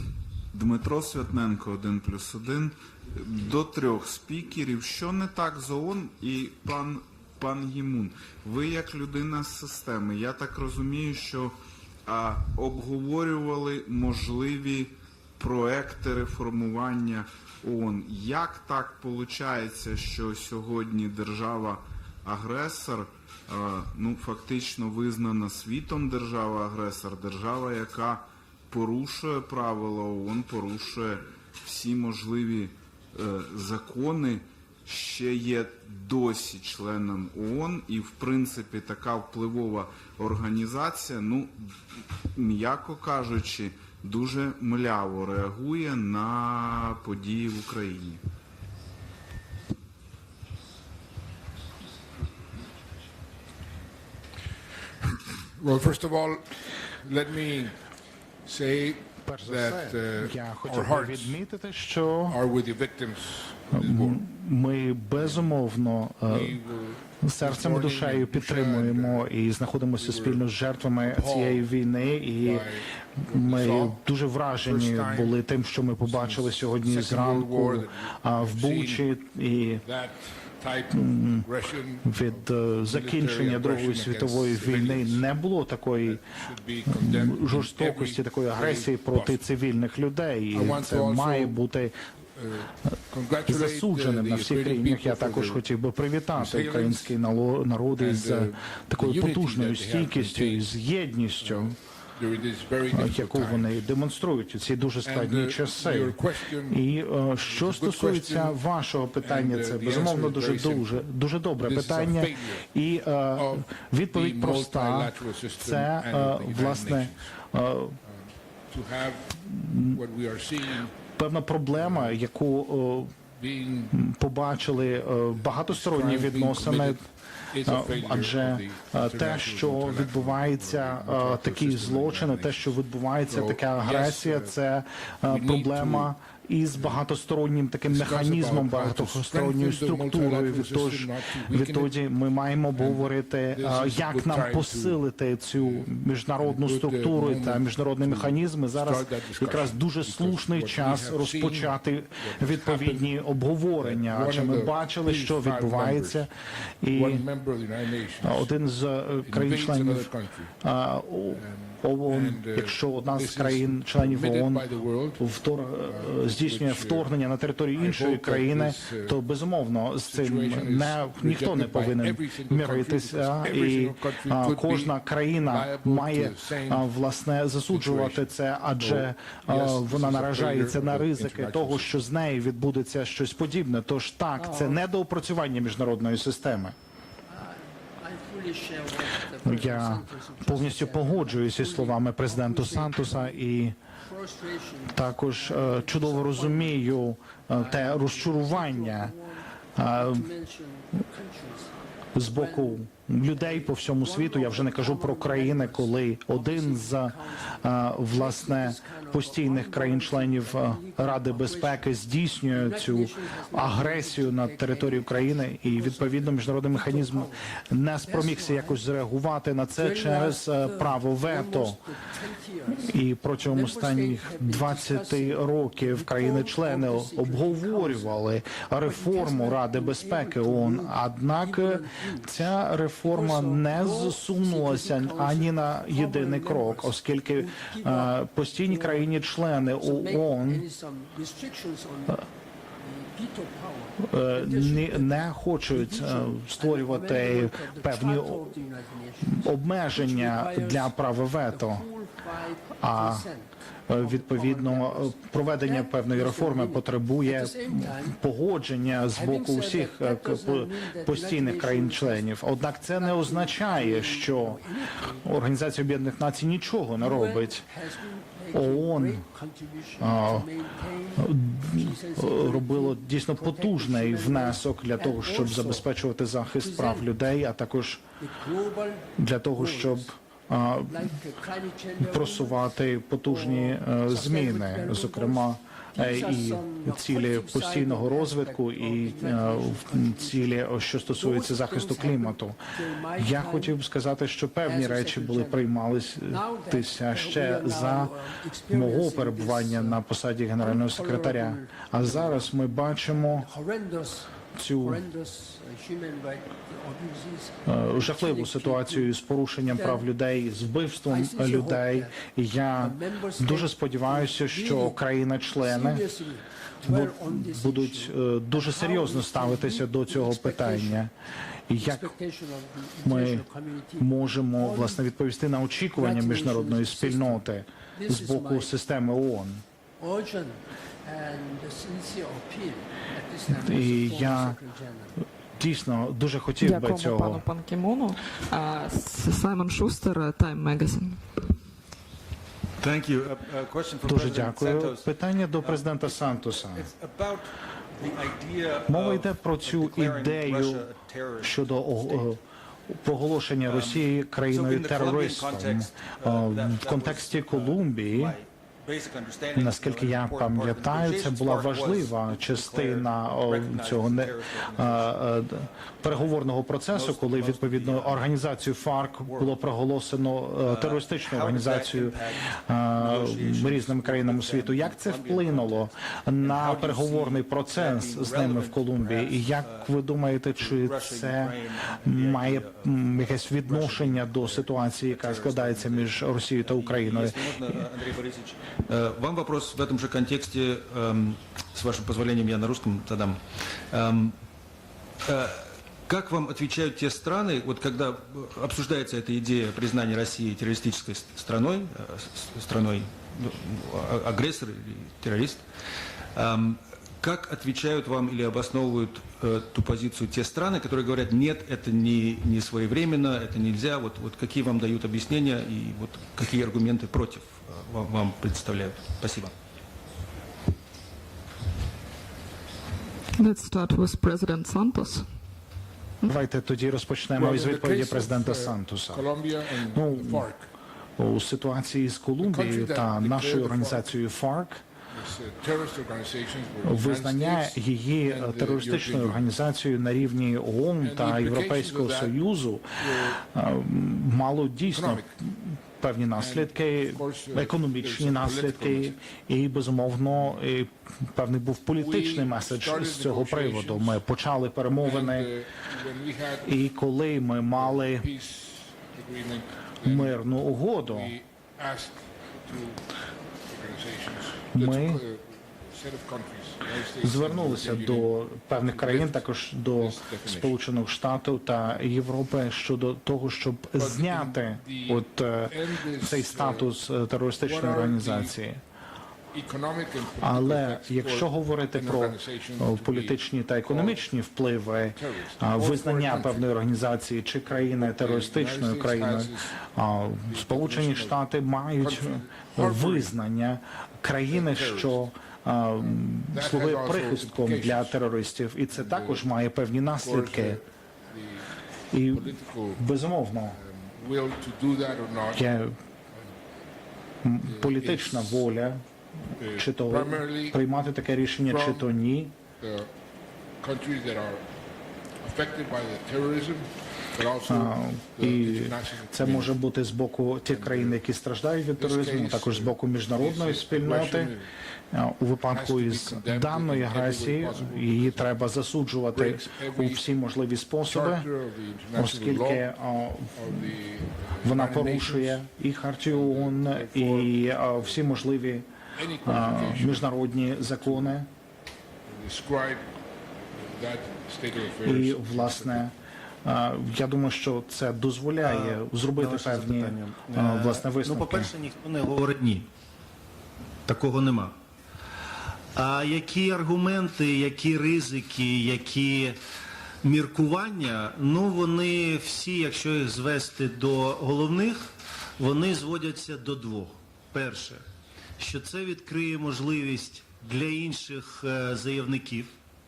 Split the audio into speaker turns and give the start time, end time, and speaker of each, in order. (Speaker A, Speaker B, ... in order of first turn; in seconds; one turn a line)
Speaker A: 0.5-41.7
Speaker A: 42.3-48.2
Speaker B: 55.6-57.8
Speaker B: 58.4-61.4
Speaker C: 59.2-62.4
Speaker B: 62.3-64.2
Speaker C: 63.7-66.6
Speaker B: 65.2-65.5
Speaker B: 66.3-69.3
Speaker C: 67.2-79.8
Speaker B: 70.0-70.4
Speaker B: 71.0-71.7
Speaker B: 72.4-74.0
Speaker B: 74.6-75.4
Speaker B: 76.0-79.0
Speaker B: 79.8-85.2
Speaker C: 81.0-81.5
Speaker C: 82.0-86.2
Speaker B: 86.0-89.4
Speaker C: 86.9-91.9
Speaker B: 90.5-91.6
Speaker B: 92.3-95.6
Speaker C: 93.5-101.7
Speaker B: 96.3-97.2
Speaker B: 97.9-100.7
Speaker B: 101.4-103.8
Speaker C: 102.9-106.2
Speaker B: 105.0-106.8
Speaker C: 106.7-118.0
Speaker B: 107.5-108.6
Speaker B: 109.2-111.0
Speaker B: 111.6-112.7
Speaker B: 113.3-117.3
Speaker B: 118.0-121.0
Speaker C: 119.5-120.0
Speaker C: 121.2-123.2
Speaker B: 121.7-122.2
Speaker B: 123.3-124.0
Speaker C: 123.9-127.0
Speaker B: 125.4-132.7
Speaker C: 127.6-156.3
Speaker B: 133.3-134.5
Speaker B: 135.2-136.1
Speaker B: 137.9-141.9
Speaker B: 142.8-145.0
Speaker B: 145.6-153.1
Speaker B: 153.8-156.3
Speaker C: 156.8-157.2
Speaker B: 156.9-158.5
Speaker C: 158.2-160.1
Speaker B: 159.2-160.5
Speaker C: 160.6-164.6
Speaker B: 161.3-165.3
Speaker C: 165.2-186.8
Speaker B: 165.8-167.1
Speaker B: 167.7-169.2
Speaker B: 170.1-176.9
Speaker B: 177.7-182.0
Speaker D: 184.4-184.8
Speaker D: 187.3-193.4
Speaker C: 189.4-193.8
Speaker D: 194.0-196.9
Speaker C: 194.9-199.1
Speaker D: 197.5-211.9
Speaker C: 199.8-200.3
Speaker C: 202.1-221.8
Speaker D: 212.5-217.5
Speaker D: 218.0-218.8
Speaker D: 219.8-228.2
Speaker C: 222.7-240.6
Speaker D: 228.8-232.5
Speaker D: 233.0-239.1
Speaker D: 239.8-258.2
Speaker C: 244.0-248.6
Speaker C: 249.2-251.9
Speaker C: 252.8-253.3
Speaker C: 253.9-264.6
Speaker D: 259.1-262.3
Speaker D: 263.0-265.4
Speaker C: 265.2-267.6
Speaker D: 267.0-275.9
Speaker C: 268.5-269.2
Speaker C: 270.0-270.5
Speaker C: 271.2-278.0
Speaker D: 276.6-277.1
Speaker D: 278.2-280.1
Speaker C: 279.2-281.2
Speaker D: 280.9-282.6
Speaker C: 282.0-298.1
Speaker D: 283.2-290.5
Speaker D: 291.1-293.8
Speaker D: 294.6-295.7
Speaker D: 296.3-300.0
Speaker C: 298.7-303.5
Speaker D: 300.6-302.5
Speaker D: 303.1-309.1
Speaker C: 304.5-305.0
Speaker C: 307.6-316.0
Speaker D: 309.6-310.1
Speaker D: 311.1-312.2
Speaker D: 312.8-315.0
Speaker D: 315.5-321.0
Speaker C: 316.9-321.1
Speaker C: 321.7-322.1
Speaker D: 321.8-325.0
Speaker C: 323.0-323.4
Speaker C: 324.0-329.6
Speaker D: 325.9-327.4
Speaker D: 327.9-328.7
Speaker D: 330.0-335.2
Speaker C: 333.5-334.6
Speaker C: 335.6-337.4
Speaker E: 336.6-341.3
Speaker F: 342.8-352.3
Speaker C: 344.1-346.9
Speaker C: 348.9-350.9
Speaker C: 351.4-358.3
Speaker F: 353.6-365.2
Speaker C: 359.5-387.8
Speaker F: 366.1-366.3
Speaker F: 366.9-368.3
Speaker F: 369.2-369.6
Speaker F: 370.6-379.9
Speaker F: 380.6-394.4
Speaker F: 395.2-405.7
Speaker F: 406.3-419.5
Speaker E: 423.4-425.3
Speaker C: 426.2-429.3
Speaker B: 427.3-430.6
Speaker C: 429.9-430.4
Speaker C: 431.2-434.8
Speaker B: 432.4-434.1
Speaker B: 435.1-439.5
Speaker C: 436.8-455.5
Speaker B: 441.0-442.4
Speaker B: 443.0-443.4
Speaker B: 444.9-445.3
Speaker B: 446.4-449.2
Speaker B: 452.0-454.2
Speaker B: 455.0-456.8
Speaker C: 456.6-458.2
Speaker B: 457.8-460.4
Speaker C: 460.0-461.3
Speaker B: 461.0-468.3
Speaker C: 464.7-465.2
Speaker C: 467.2-478.8
Speaker B: 468.8-469.4
Speaker B: 470.0-470.7
Speaker B: 474.0-476.9
Speaker B: 477.6-478.5
Speaker B: 479.5-484.2
Speaker C: 480.4-500.8
Speaker B: 485.1-486.7
Speaker B: 487.9-489.8
Speaker B: 490.5-491.4
Speaker B: 492.0-493.3
Speaker B: 494.5-495.2
Speaker B: 496.1-498.2
Speaker B: 498.9-499.4
Speaker B: 500.2-501.8
Speaker C: 502.1-503.8
Speaker B: 502.3-503.0
Speaker B: 503.7-505.7
Speaker C: 505.5-506.0
Speaker C: 507.4-509.0
Speaker B: 507.7-508.6
Speaker B: 509.6-510.8
Speaker C: 509.8-512.5
Speaker B: 511.7-512.1
Speaker B: 512.8-513.1
Speaker B: 513.8-514.7
Speaker B: 515.4-519.7
Speaker C: 517.7-524.5
Speaker B: 520.7-521.2
Speaker B: 522.0-524.7
Speaker C: 525.1-531.5
Speaker B: 525.7-528.7
Speaker B: 529.3-530.3
Speaker B: 531.0-532.9
Speaker C: 532.1-533.9
Speaker B: 533.5-535.6
Speaker C: 534.6-538.9
Speaker B: 536.3-538.3
Speaker B: 539.1-541.4
Speaker C: 539.4-541.5
Speaker B: 542.3-543.1
Speaker B: 543.7-546.0
Speaker C: 545.0-546.1
Speaker C: 546.6-551.7
Speaker G: 548.6-552.9
Speaker G: 554.0-554.7
Speaker G: 555.9-559.6
Speaker G: 560.2-568.0
Speaker G: 568.6-572.7